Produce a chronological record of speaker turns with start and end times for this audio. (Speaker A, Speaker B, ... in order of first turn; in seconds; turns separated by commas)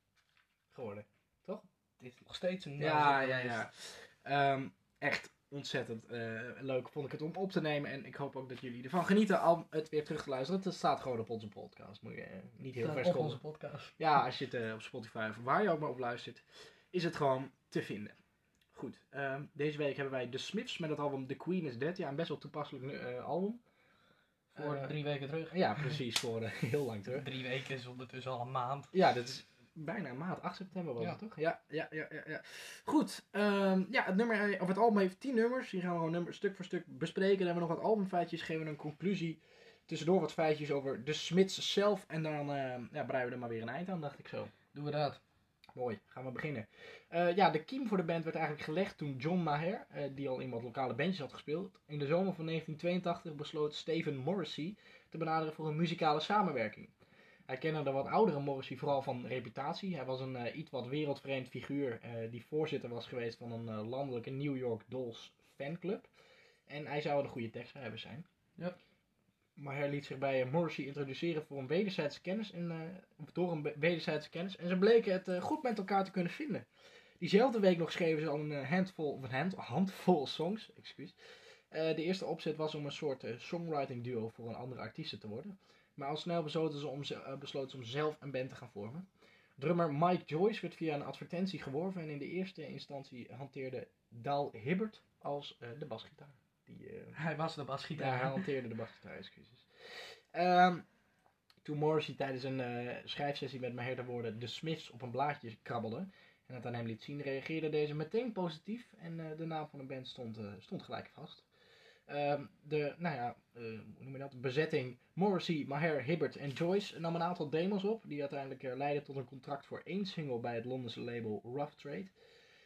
Speaker A: 0.7-1.6, Speaker B: 2.0-3.6, Speaker A: 2.8-13.4, Speaker B: 12.8-14.0, Speaker A: 14.0-18.2, Speaker A: 18.7-23.6, Speaker B: 24.5-26.0, Speaker A: 24.6-24.9, Speaker A: 25.5-27.2, Speaker B: 27.1-28.9, Speaker A: 28.9-44.5, Speaker B: 44.7-45.2, Speaker A: 45.7-56.9, Speaker A: 57.5-66.1, Speaker A: 66.7-68.2, Speaker A: 69.5-76.7, Speaker A: 77.2-81.1, Speaker A: 81.7-89.0, Speaker A: 89.6-97.1, Speaker B: 97.1-98.4, Speaker A: 98.0-100.8, Speaker A: 101.6-111.5, Speaker A: 112.1-122.1